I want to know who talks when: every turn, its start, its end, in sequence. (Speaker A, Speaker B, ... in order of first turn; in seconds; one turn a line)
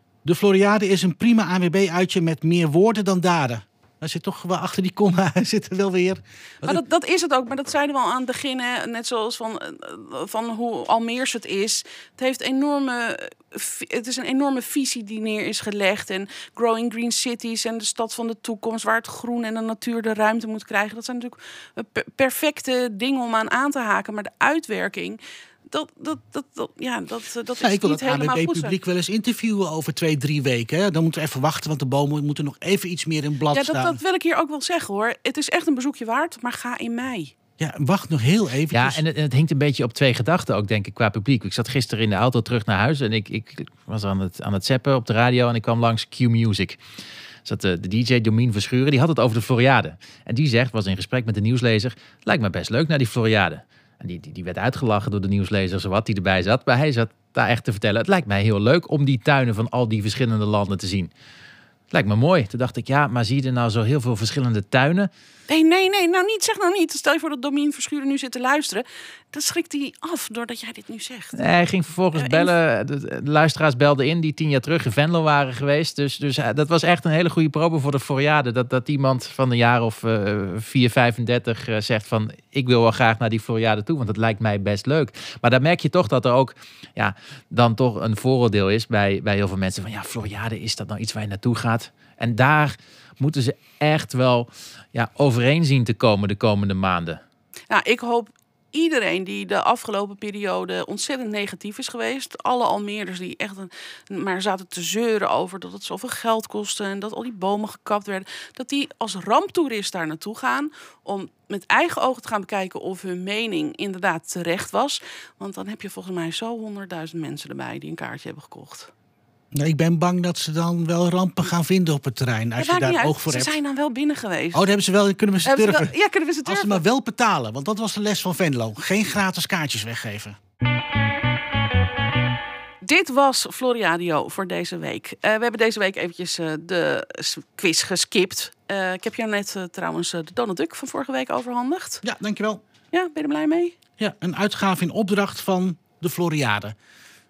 Speaker A: 0.2-6.8
Speaker B: 6.6-28.7
Speaker A: 27.6-34.0
Speaker B: 33.5-37.3
Speaker A: 37.6-39.0
Speaker C: 38.7-46.8
Speaker C: 47.4-61.1
Speaker C: 61.9-65.1
Speaker B: 65.5-71.4
Speaker C: 71.3-97.2
Speaker B: 72.1-72.5
Speaker B: 97.7-118.9
Speaker A: 119.5-123.5
Speaker B: 122.6-124.6
Speaker A: 124.5-125.9
Speaker B: 125.4-126.8
Speaker A: 126.4-130.3
Speaker B: 132.8-142.0
Speaker A: 142.0-142.6
Speaker B: 142.9-143.7
Speaker A: 144.0-146.8